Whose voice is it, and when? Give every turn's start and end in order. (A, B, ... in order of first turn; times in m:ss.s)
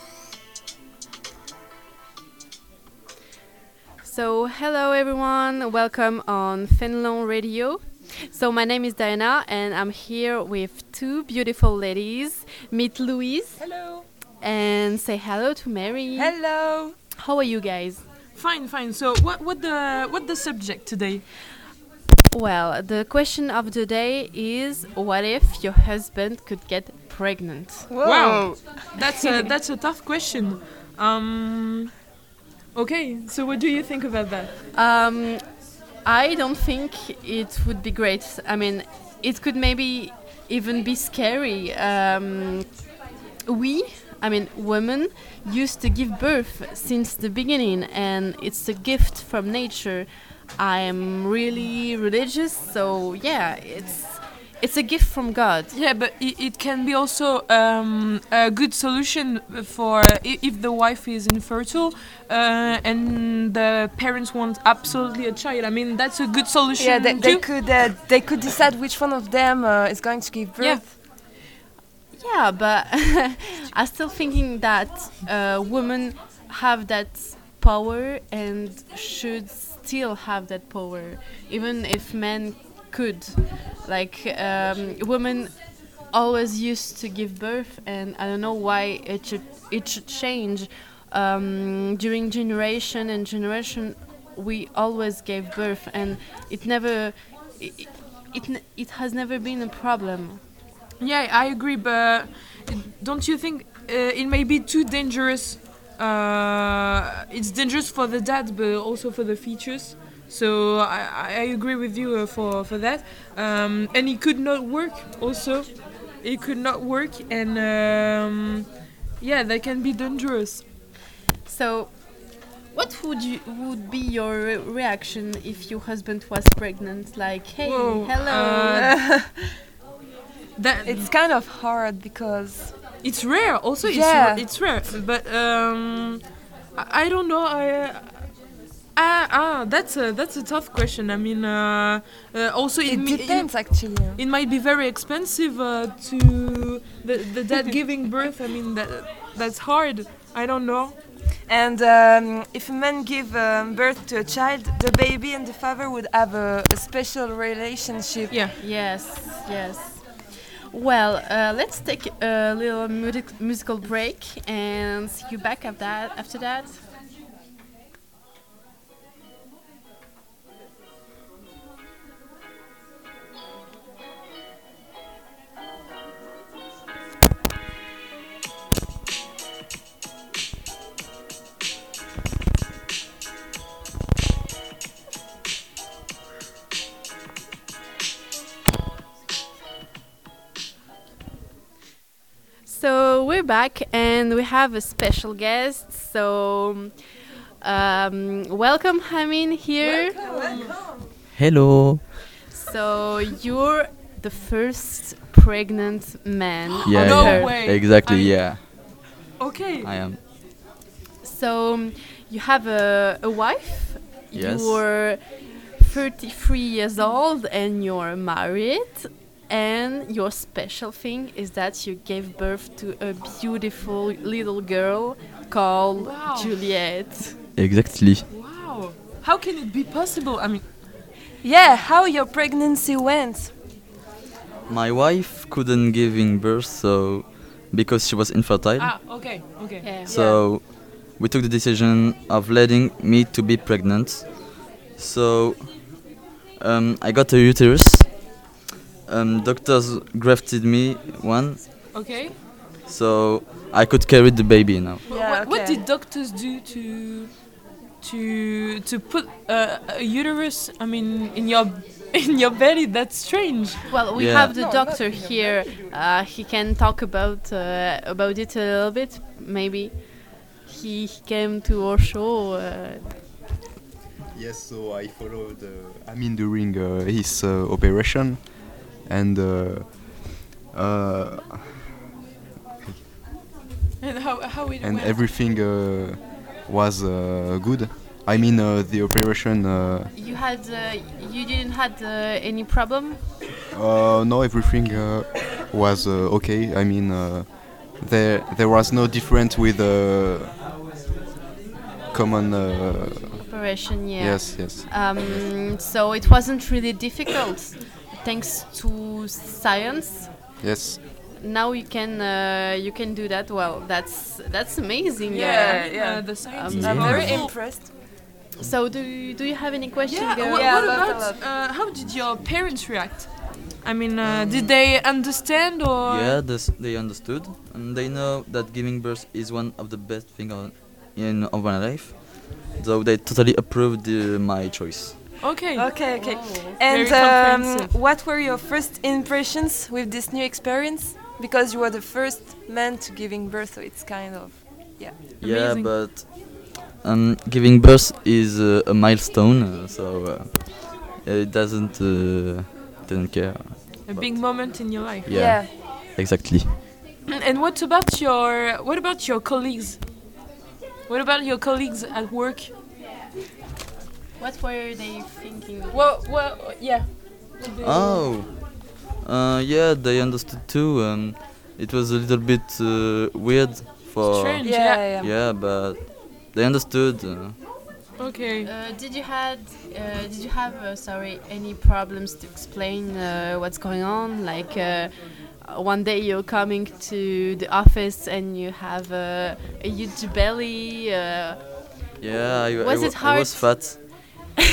0:04.0-0:13.8 A
0:13.6-0:14.1 B
0:14.4-0:16.5 A
0:16.2-0:17.0 B
0:17.2-0:18.0 A
0:18.4-0:21.3 C
0:22.3-0:27.9 A
0:27.9-0:29.5 B
0:28.0-0:32.0 C
0:32.7-0:34.5 C
0:34.7-0:42.8 A
0:43.5-0:55.7 A
0:55.7-1:07.7 C
1:06.8-1:10.9 B
1:10.6-1:10.9 C
1:12.1-1:40.4 A
1:41.0-2:00.6 C
2:01.4-2:08.8 A
2:07.6-2:09.0 C
2:08.7-2:09.5 B
2:10.6-2:11.1 C
2:10.8-2:12.8 B
2:13.0-2:18.4 C
2:13.8-2:14.5 B
2:18.9-2:31.0 C
2:22.8-2:24.2 B
2:31.4-2:38.4 B
2:38.3-2:38.6 C
2:38.6-2:46.8 A
3:12.6-3:17.0 A
3:17.6-3:20.2 A
3:19.8-3:21.0 C
3:20.1-3:21.1 B
3:21.3-3:22.0 D
3:22.5-3:27.6 A
3:26.9-3:28.6 D
3:26.9-3:29.9 C
3:29.8-3:30.2 D
3:31.2-3:47.4 A
3:34.3-3:34.8 D
3:46.0-3:46.5 C
3:47.6-3:48.3 D
3:48.3-3:50.6 C
3:51.4-3:53.5 B
3:54.7-3:58.9 D
3:58.8-4:00.1 C
3:59.8-4:00.1 A
4:00.1-4:00.4 B
4:00.1-4:08.4 D
4:09.1-4:11.7 D
4:11.9-4:12.4 C
4:12.9-4:15.0 D
4:15.1-4:23.9 C
4:15.1-4:15.8 B
4:23.9-4:33.1 A
4:24.2-4:24.5 D
4:24.5-4:25.9 B
4:34.3-4:41.8 E
4:44.0-4:45.2 C
4:44.8-4:50.1 E
4:50.1-4:53.2 A
4:53.7-5:00.5 E
5:02.1-5:05.5 E
5:03.4-5:10.6 A
5:10.6-5:11.0 E
5:11.4-5:17.5 A
5:15.3-5:17.8 B
5:15.3-5:17.6 C
5:16.6-5:17.5 D
5:18.6-5:20.7 A
5:20.1-5:26.4 C
5:20.5-5:21.5 B
5:24.3-5:24.7 D
5:26.1-5:35.3 D
5:35.4-5:35.9 C
5:35.7-5:45.2 B
5:36.1-5:36.8 A
5:36.8-5:38.0 C
5:45.4-5:56.8 D
5:45.4-5:46.0 C
5:54.0-5:55.6 C
5:55.3-5:55.7 B
5:57.3-6:00.0 C
6:01.1-6:02.7 C
6:04.4-6:06.0 A
6:05.9-6:08.4 C
6:07.8-6:17.6 D
6:14.2-6:15.2 C
6:14.6-6:15.3 B
6:18.2-6:18.7 C
6:18.6-6:31.6 A
6:32.2-6:34.0 D
6:32.8-6:34.2 A